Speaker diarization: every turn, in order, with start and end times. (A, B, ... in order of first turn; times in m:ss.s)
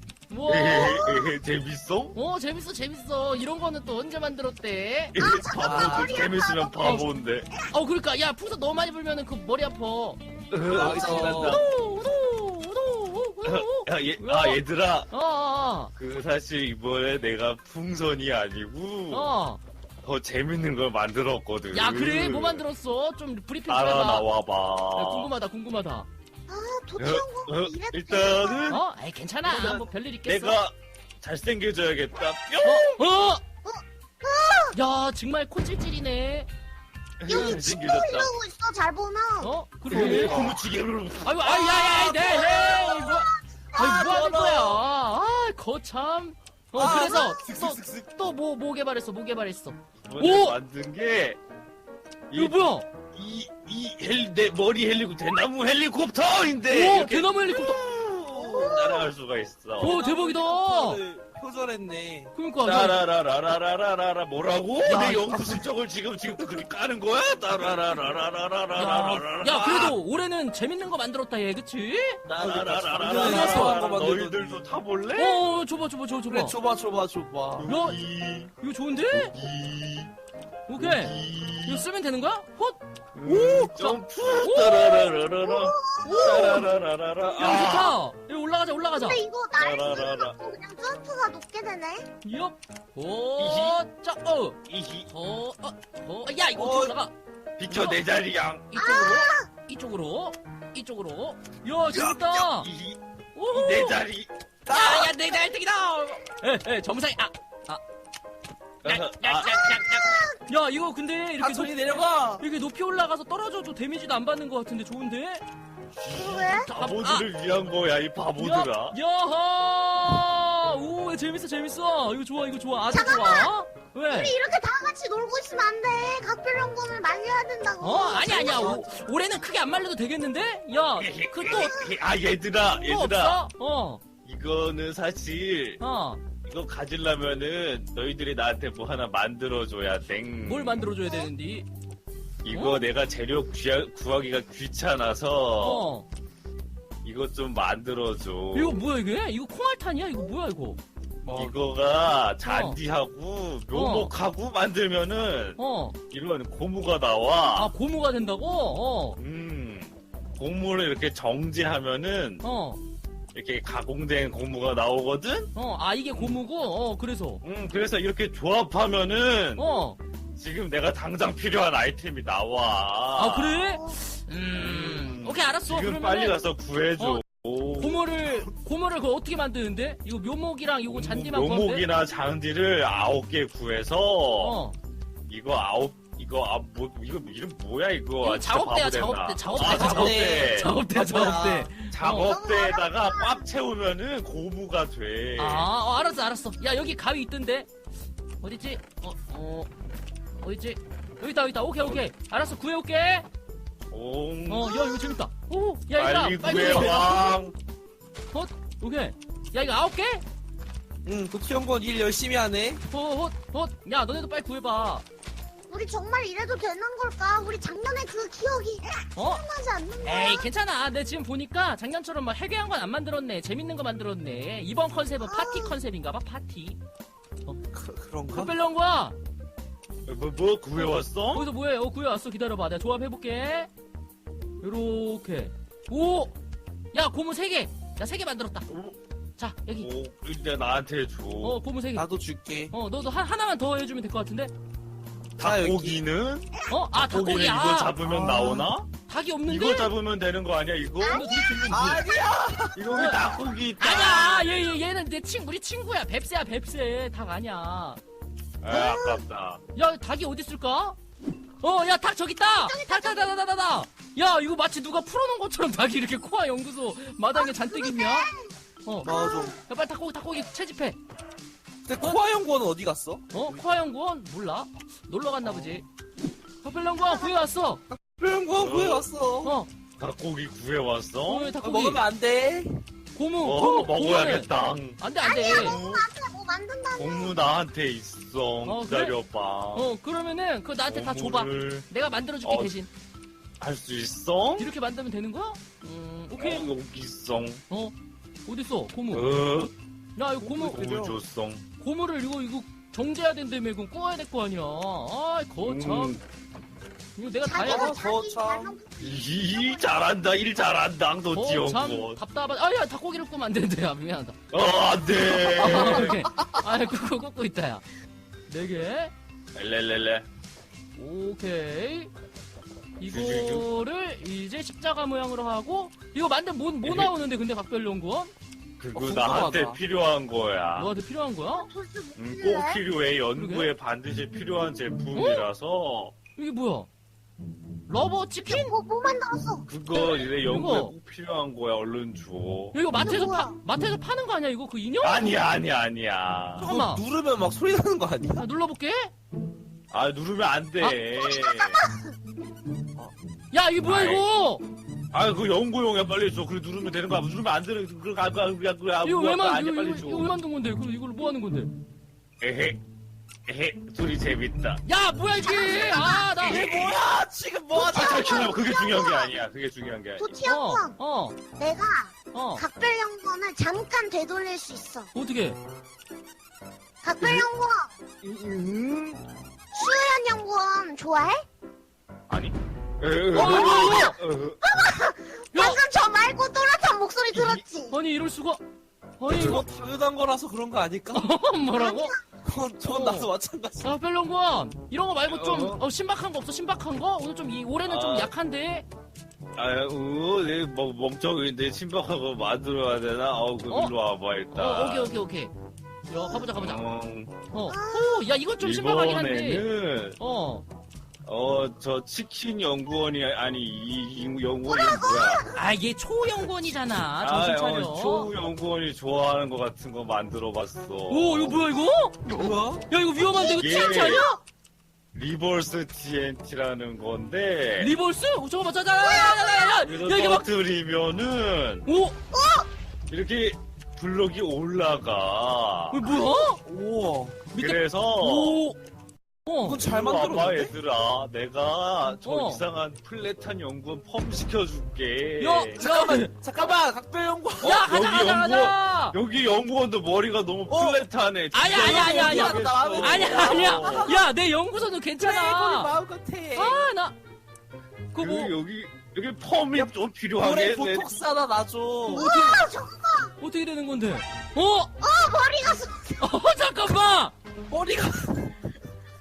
0:00.3-0:01.2 A
0:00.4-0:02.2 B
0:02.1-0:05.2 A
0:05.1-0:07.5 B
0:05.2-0:07.0 C
0:05.6-0:06.2 D
0:06.8-0:07.0 A
0:07.6-0:15.9 A
0:10.5-0:11.7 B
0:10.7-0:11.6 D
0:13.4-0:15.1 B
0:15.9-0:19.3 B
0:19.1-0:19.6 A
0:20.0-0:22.6 B
0:21.7-0:24.2 A
0:23.7-0:25.3 B
0:24.9-0:26.1 A
0:26.5-0:28.8 C
0:27.0-0:28.8 B
0:28.7-0:30.6 A
0:29.4-0:32.9 B
0:32.6-0:33.4 A
0:32.6-0:33.0 C
0:33.6-0:34.8 C
0:34.7-0:36.5 A
0:37.2-0:38.3 B
0:37.2-0:39.5 C
0:39.4-0:40.6 A
0:39.9-0:41.7 B
0:39.9-0:40.5 D
0:41.2-0:50.6 A
0:41.7-0:42.3 D
0:42.2-0:44.0 C
0:43.8-0:44.8 D
0:46.7-0:48.1 D
0:46.8-0:47.4 C
0:50.0-0:51.4 B
0:52.3-1:00.0 B
0:52.3-0:52.8 A
0:56.7-0:57.8 A
0:57.7-0:58.9 D
0:58.3-0:59.1 C
0:59.8-1:01.0 A
0:59.8-1:02.3 D
1:02.3-1:03.0 A
1:02.6-1:10.0 B
1:04.8-1:05.6 D
1:08.7-1:12.2 A
1:12.2-1:15.4 B
1:12.4-1:14.6 D
1:13.1-1:13.8 A
1:15.2-1:16.6 A
1:16.3-1:17.7 D
1:17.6-1:18.5 B
1:17.6-1:18.0 A
1:18.6-1:19.3 A
1:19.1-1:20.1 B
1:20.7-1:21.1 A
1:20.8-1:21.9 B
1:21.6-1:25.2 A
1:23.1-1:28.0 B
1:25.4-1:26.6 C
1:26.0-1:26.6 A
1:27.4-1:29.2 A
1:29.0-1:32.1 C
1:29.6-1:30.3 B
1:32.2-1:37.1 A
1:33.4-1:33.8 B
1:34.7-1:35.1 B
1:36.5-1:36.9 D
1:37.6-1:38.7 B
1:37.7-1:38.0 A
1:38.7-1:42.7 A
1:38.7-1:39.5 C
1:41.9-1:43.0 B
1:43.4-1:44.0 A
1:43.5-1:44.3 B
1:44.6-1:45.3 D
1:44.7-1:47.8 A
1:48.8-1:49.9 B
1:48.8-1:55.4 A
1:49.7-1:50.4 C
1:51.4-1:52.4 D
1:56.0-1:59.0 B
1:56.1-1:56.7 C
1:56.6-1:57.3 A
1:58.4-2:04.3 A
2:02.9-2:03.5 C
2:04.1-2:08.9 C
2:07.8-2:11.8 A
2:08.4-2:08.8 D
2:11.0-2:13.4 B
2:11.5-2:11.9 C
2:12.6-2:14.0 A
2:14.2-2:15.8 B
2:15.8-2:16.2 A
2:16.4-2:20.9 B
2:20.4-2:21.6 A
2:22.4-2:25.9 B
2:22.5-2:22.8 A
2:25.6-2:26.0 A
2:27.0-2:28.8 B
2:28.5-2:30.8 A
2:31.2-2:31.6 D
2:31.3-2:35.6 B
2:32.4-2:32.8 A
2:33.7-2:34.1 A
2:35.6-2:36.0 A
2:36.1-2:37.7 B
2:37.5-2:39.2 A
2:39.2-2:42.4 B
2:42.4-2:42.8 A
2:43.3-2:45.5 B
2:45.5-2:47.4 A
2:47.4-2:49.6 B
2:49.6-2:50.0 A
2:50.4-2:53.7 B
2:53.1-2:56.4 A
2:54.5-2:58.0 B
2:57.8-3:01.9 A
3:00.9-3:04.6 B
3:04.4-3:04.7 A
3:05.3-3:10.7 B
3:08.2-3:12.3 A
3:09.6-3:11.7 D
3:11.9-3:15.7 B
3:12.0-3:13.4 C
3:15.4-3:17.7 A
3:18.4-3:19.7 A
3:20.4-3:23.2 A
3:23.9-3:24.9 B
3:24.5-3:27.3 A
3:24.8-3:25.2 C
3:26.0-3:27.5 B
3:28.3-3:30.2 A
3:31.0-3:32.8 D
3:32.9-3:35.0 A
3:35.7-3:40.5 C
3:39.1-3:39.4 A
3:40.0-3:46.8 A
3:45.2-3:45.8 C
3:47.7-3:48.5 D
3:48.3-3:49.1 A
3:50.0-3:51.4 B
3:51.3-3:53.7 A
3:54.6-3:56.3 A
3:56.9-3:58.7 A
3:58.7-3:59.0 B
3:59.4-3:59.9 A
3:59.8-4:01.6 B
4:01.4-4:02.1 A
4:02.0-4:02.7 D
4:02.7-4:04.5 A
4:05.4-4:06.5 B
4:05.4-4:06.0 D
4:06.7-4:08.0 A
4:07.0-4:08.9 B
4:08.0-4:08.7 D
4:09.1-4:09.9 A
4:09.4-4:11.4 B
4:11.0-4:12.0 C
4:11.1-4:12.0 A
4:11.7-4:12.8 D
4:12.7-4:14.5 B
4:12.9-4:13.2 A
4:13.8-4:18.0 A
4:18.6-4:19.6 B
4:18.7-4:19.2 C
4:19.7-4:21.0 A
4:21.6-4:28.3 A
4:22.6-4:23.3 C
4:27.4-4:28.5 C
4:28.8-4:31.0 A
4:29.0-4:29.6 D
4:29.0-4:29.6 C
4:31.8-4:33.5 D
4:33.3-4:35.8 A
4:36.6-4:37.8 A
4:37.0-4:37.4 C
4:38.1-4:39.5 D
4:38.6-4:39.1 B
4:39.4-4:39.7 A
4:40.0-4:41.5 B
4:41.2-4:42.0 A
4:41.6-4:42.8 D
4:43.1-4:45.8 A
4:43.4-4:46.0 B
4:45.2-4:47.4 C
4:47.0-4:49.9 B
4:48.6-4:49.1 A
4:49.7-4:52.9 A
4:50.9-4:51.8 B
4:52.4-4:52.7 B
4:53.6-4:54.7 B
4:54.6-4:56.7 A
4:56.4-4:57.6 B
4:58.4-4:59.2 A
4:59.1-4:59.7 B
5:00.2-5:00.9 A
5:00.5-5:01.6 B
5:00.5-5:01.2 D
5:01.8-5:06.1 A
5:05.6-5:06.2 B
5:07.2-5:08.0 A
5:07.4-5:09.9 C
5:07.5-5:08.7 D
5:09.0-5:12.2 B
5:11.3-5:14.4 A
5:14.5-5:16.3 B
5:15.3-5:17.8 A
5:18.5-5:19.1 A
5:19.5-5:20.3 B
5:21.0-5:22.1 A
5:23.0-5:28.3 A
5:23.1-5:23.7 B
5:26.8-5:27.1 B
5:28.8-5:30.9 B
5:28.9-5:29.8 D
5:30.8-5:31.7 A
5:31.5-5:32.8 C
5:32.2-5:36.1 B
5:33.4-5:33.7 A
5:35.1-5:35.4 A
5:36.4-5:36.9 A
5:37.9-5:38.7 A
5:38.4-5:39.7 C
5:39.7-5:42.8 B
5:39.9-5:40.9 A
5:42.7-5:45.3 A
5:42.9-5:43.6 C
5:45.0-5:46.7 B
5:46.6-5:48.4 D
5:46.6-5:47.0 A
5:48.4-5:49.1 A
5:49.9-5:51.8 B
5:51.1-5:52.1 C
5:53.5-5:54.6 A
5:53.8-5:54.2 B
5:55.1-6:00.3 B
5:59.0-6:01.7 A
6:02.4-6:02.8 B
6:03.5-6:04.8 B
6:04.8-6:06.8 A
6:05.3-6:06.6 C
6:06.4-6:08.5 D
6:07.7-6:09.3 C
6:07.9-6:10.3 B
6:10.2-6:10.9 C
6:10.4-6:11.4 A
6:11.6-6:15.1 C
6:12.3-6:12.6 A
6:15.1-6:15.6 A
6:17.0-6:17.9 C
6:17.2-6:17.5 B
6:18.2-6:19.2 B
6:19.7-6:21.4 C
6:22.3-6:24.6 B
6:23.3-6:24.2 A
6:23.4-6:28.0 C
6:25.5-6:25.8 A
6:27.3-6:27.6 B
6:27.9-6:28.6 A
6:29.2-6:29.6 A
6:29.3-6:31.2 D
6:31.1-6:32.2 A
6:31.8-6:32.2 C
6:32.4-6:33.9 D
6:32.8-6:33.3 A
6:33.8-6:38.8 A
6:35.3-6:35.8 B
6:37.9-6:38.3 B
6:39.6-6:45.1 B
6:43.7-6:43.9 A
6:44.5-6:45.5 A
6:46.1-6:46.8 A
6:46.4-6:47.4 B
6:47.5-6:49.7 A
6:47.7-6:48.3 C
6:48.6-6:50.2 B
6:50.2-6:50.6 A
6:51.2-6:55.5 B
6:54.7-6:55.6 C
6:55.5-6:58.3 A
6:57.2-7:01.7 B
7:01.1-7:02.3 A
7:02.3-7:02.8 D
7:02.9-7:04.3 A
7:03.3-7:04.4 C
7:03.6-7:04.3 B
7:05.1-7:07.9 B
7:07.8-7:10.5 A
7:09.0-7:09.8 C
7:09.8-7:11.9 B
7:11.8-7:12.2 A
7:12.3-7:12.7 C
7:13.1-7:16.0 B
7:15.9-7:16.6 A
7:16.6-7:17.4 D
7:17.5-7:18.8 A
7:17.6-7:18.6 B
7:19.4-7:19.8 A
7:19.6-7:20.7 D
7:19.7-7:25.8 B
7:22.2-7:22.6 A
7:25.4-7:26.4 A
7:25.8-7:27.8 D
7:27.6-7:29.2 A
7:27.6-7:34.2 B
7:30.7-7:31.0 D
7:31.5-7:35.9 A
7:31.7-7:34.2 D
7:35.2-7:36.8 D
7:36.5-7:37.1 A
7:38.1-7:38.5 A
7:38.1-7:41.1 B
7:39.8-7:42.3 D
7:42.1-7:43.3 C
7:42.1-7:42.6 A
7:43.4-7:44.9 A
7:45.0-7:46.3 C
7:46.2-7:47.3 A
7:47.7-7:48.6 D